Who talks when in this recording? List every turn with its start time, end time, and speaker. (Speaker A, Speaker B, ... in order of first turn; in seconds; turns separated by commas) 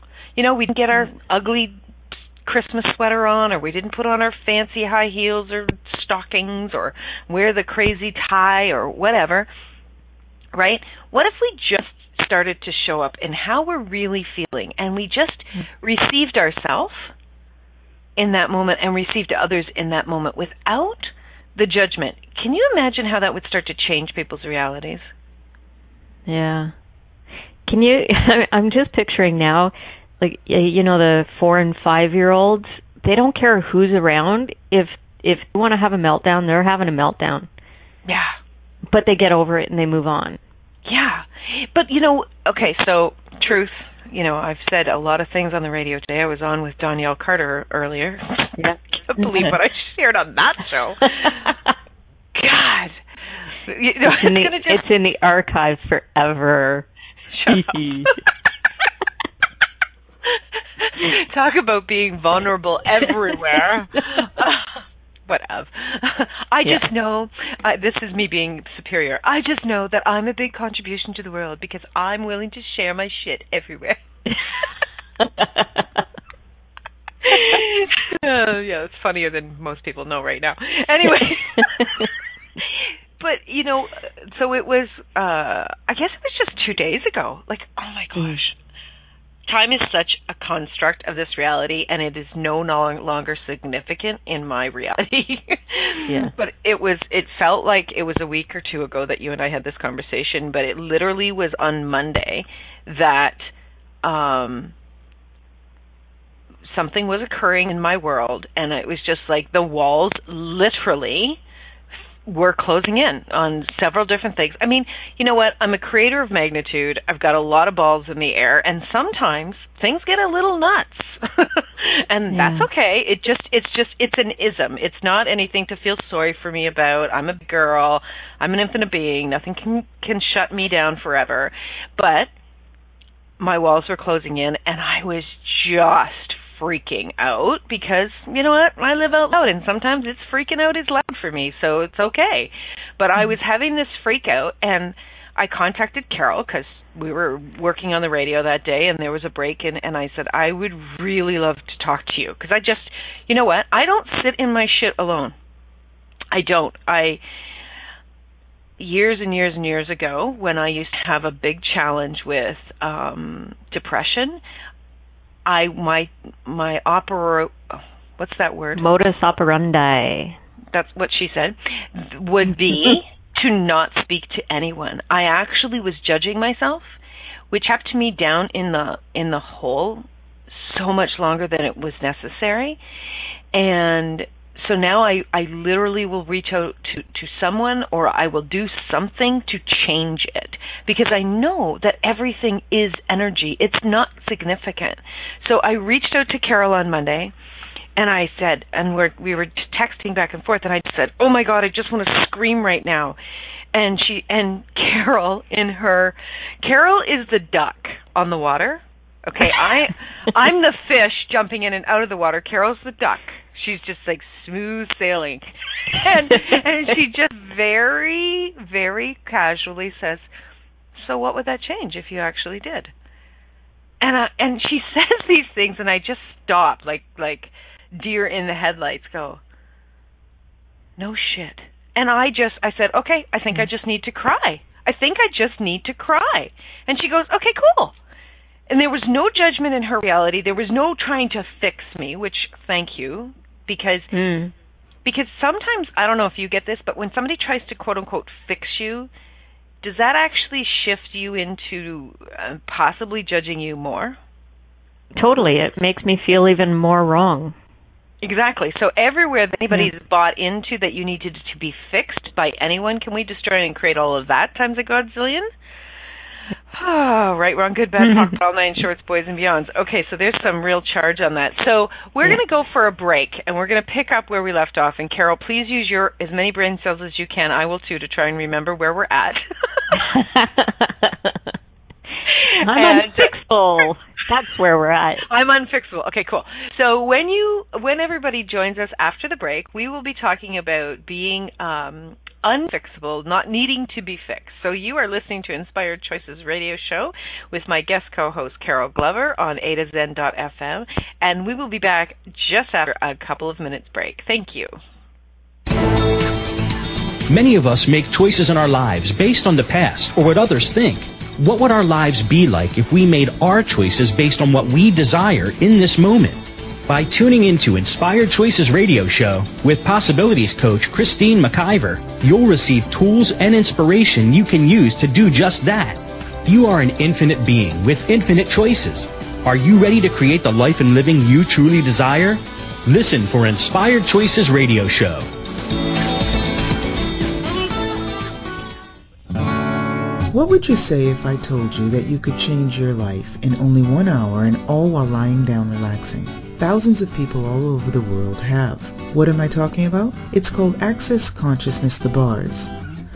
Speaker A: 0.4-1.8, Speaker A: 2.4-9.5, Speaker A: 10.5-17.1, Speaker A: 18.2-25.1, Speaker B: 26.3-26.7, Speaker B: 27.7-37.5, Speaker A: 38.1-38.4, Speaker B: 38.9-40.4, Speaker A: 40.9-51.5, Speaker B: 48.6-49.6, Speaker B: 51.1-51.6, Speaker A: 52.4-54.8, Speaker B: 54.1-56.9, Speaker A: 57.3-58.2, Speaker B: 57.5-58.2, Speaker A: 60.3-74.0, Speaker B: 75.2-75.8, Speaker A: 77.2-82.1, Speaker B: 81.6-82.1, Speaker A: 82.6-88.6, Speaker A: 89.5-103.5, Speaker B: 96.1-96.3, Speaker A: 104.0-104.7, Speaker A: 106.7-111.4, Speaker A: 112.3-132.3, Speaker B: 122.3-122.7, Speaker A: 133.4-155.3, Speaker A: 156.3-157.2, Speaker A: 158.8-164.4, Speaker A: 165.5-168.8, Speaker B: 168.8-170.4, Speaker A: 170.7-177.0, Speaker A: 177.5-182.8, Speaker A: 183.5-197.3, Speaker A: 198.0-203.2, Speaker A: 203.7-220.3, Speaker A: 220.9-222.9, Speaker A: 224.0-229.4, Speaker A: 231.0-238.0, Speaker A: 238.7-244.1, Speaker B: 244.1-244.5, Speaker A: 245.1-249.1, Speaker A: 249.8-254.2, Speaker B: 255.2-257.6, Speaker A: 258.2-265.5, Speaker A: 266.7-279.8, Speaker B: 268.0-268.3, Speaker B: 279.9-281.5, Speaker A: 282.3-283.3, Speaker B: 282.6-285.2, Speaker A: 285.2-304.8, Speaker C: 307.3-335.3, Speaker D: 340.3-352.7